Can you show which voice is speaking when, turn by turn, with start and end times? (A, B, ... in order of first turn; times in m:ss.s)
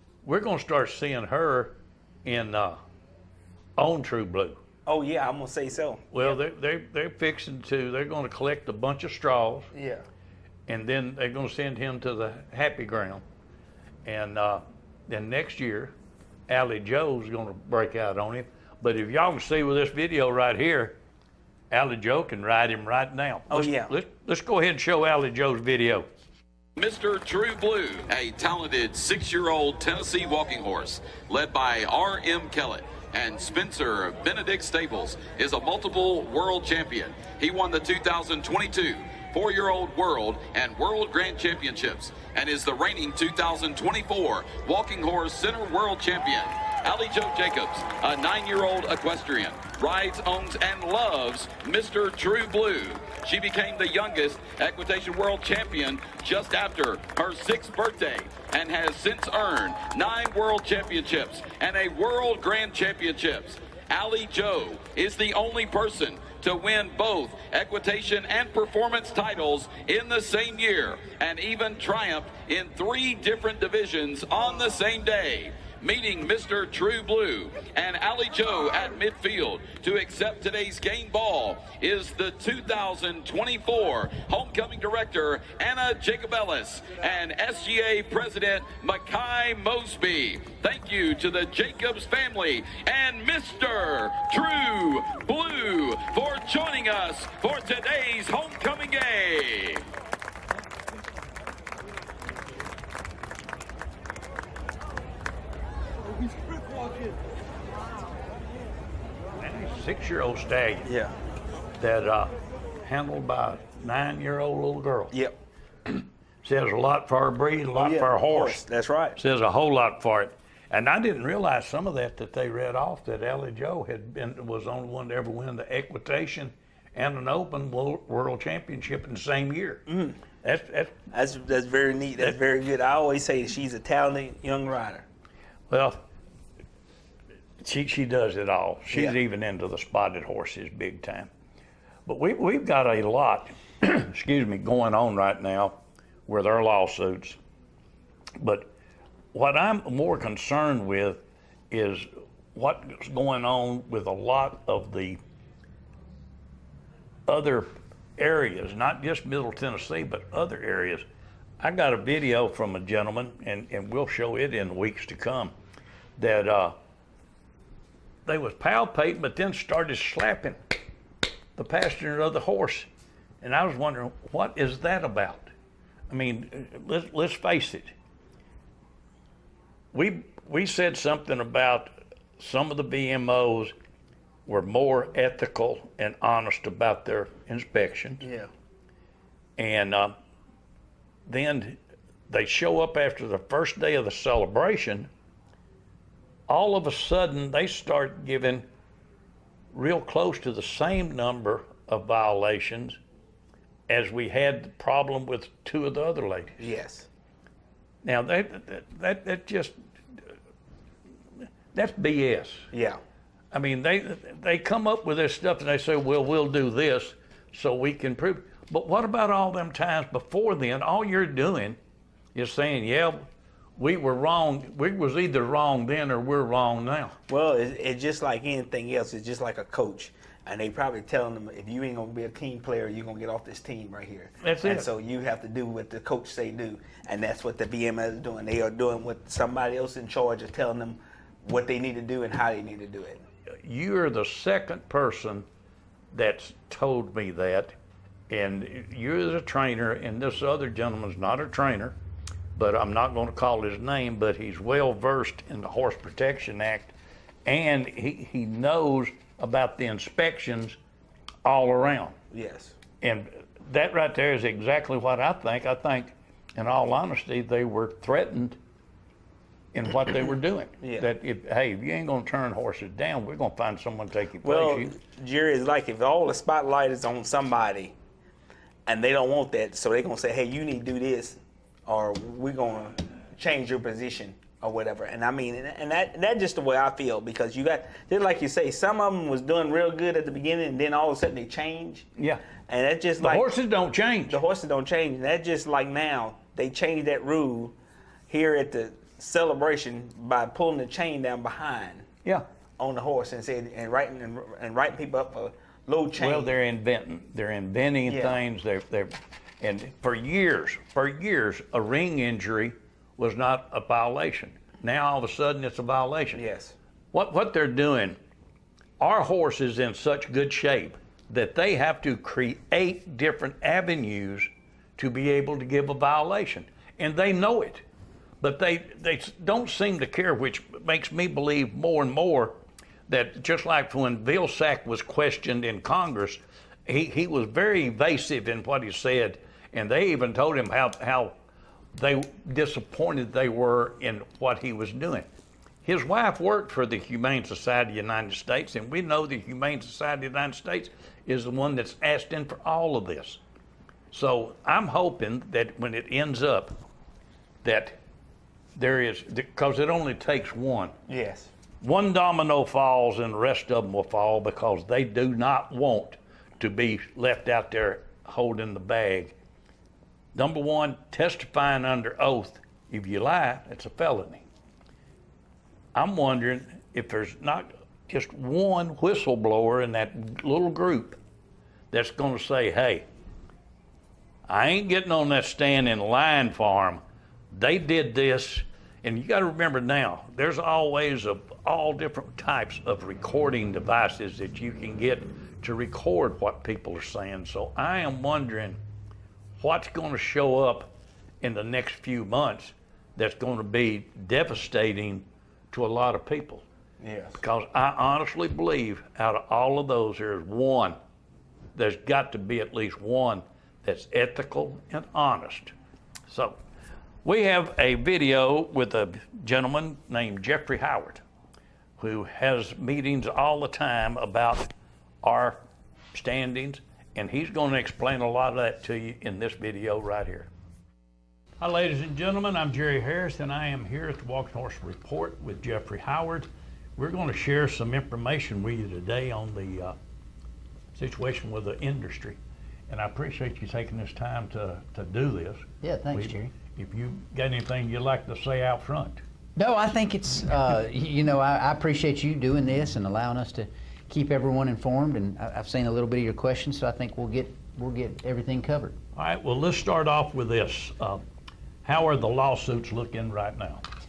0:00.2-0:02.8 A
0:03.8-0:04.6 A
0:04.8-0:06.4 B
0:06.1-0:09.7 A
0:09.7-0:10.0 B
0:10.7-0:13.2 A
0:14.0-0:15.9 A
0:16.5-0:21.0 A
0:21.7-0:26.1 A
0:23.5-0:23.9 B
0:26.8-1:39.8 C
1:49.4-1:50.9 A
1:50.8-1:51.1 B
1:51.8-1:55.1 A
1:55.9-1:58.6 A
1:57.7-1:59.2 B
1:59.2-2:09.8 A
2:09.9-2:10.2 B
2:10.4-2:11.0 A
2:11.1-2:15.0 B
2:15.7-2:16.0 A
2:17.6-2:21.3 A
2:22.0-2:27.4 A
2:28.4-2:28.7 A
2:29.3-2:35.2 A
2:37.3-2:41.0 A
2:41.6-2:45.5 A
2:46.2-2:46.8 A
2:48.2-2:50.6 A
2:51.6-2:52.9 A
2:53.4-2:55.5 A
2:56.1-2:57.9 A
2:59.9-3:03.7 A
3:04.4-3:08.2 A
3:08.2-3:08.5 B
3:09.6-3:10.2 A
3:11.3-3:11.8 A
3:12.3-3:15.1 A
3:16.5-3:18.6 A
3:19.7-3:23.0 A
3:23.9-3:26.7 A
3:26.6-3:27.0 B
3:28.0-3:30.3 A
3:31.7-3:32.7 A
3:32.7-3:33.0 B
3:33.5-3:41.8 A
3:42.3-3:43.3 A
3:43.8-3:47.2 A
3:47.3-4:03.2 B
3:54.4-3:54.9 A
4:03.6-4:05.4 A
4:06.1-4:07.7 A
4:08.3-4:12.0 A
4:12.5-4:16.9 A
4:17.4-4:20.8 A
4:21.4-4:22.2 A
4:22.3-4:22.8 B
4:23.0-4:28.6 A
4:29.7-4:34.9 A
4:30.8-4:31.1 B
4:34.4-4:37.9 B
4:38.9-4:52.1 B
4:52.2-4:52.4 A
4:52.7-4:53.5 B
4:53.2-4:54.4 A
4:54.3-4:57.7 B
4:58.3-5:02.0 B
5:02.8-5:06.5 B
5:06.2-5:16.4 A
5:08.1-5:08.4 B
5:16.3-5:16.7 B
5:17.1-5:18.2 A
5:19.0-5:27.8 A
5:28.4-5:41.3 A
5:41.9-5:45.3 A
5:45.8-5:53.4 A
5:54.1-5:56.8 A
5:57.6-5:58.0 A
5:58.8-6:01.0 A
6:01.1-6:01.5 B
6:01.8-6:09.3 A
6:10.3-6:14.4 A
6:15.9-6:21.2 A
6:21.9-6:23.0 A
6:24.5-6:27.0 A
6:27.5-6:38.8 A
6:39.6-6:46.6 A
6:47.0-6:47.4 B
6:47.4-6:51.0 A
6:51.7-6:55.7 A
6:56.3-6:56.6 A
6:57.2-7:01.2 A
7:02.0-7:05.6 A
7:06.1-7:10.5 A
7:11.6-7:19.9 A
7:20.9-7:22.4 A
7:22.9-7:29.2 A
7:25.8-7:26.5 D
7:29.6-7:39.0 D
7:39.1-7:41.2 A
7:41.8-7:43.8 A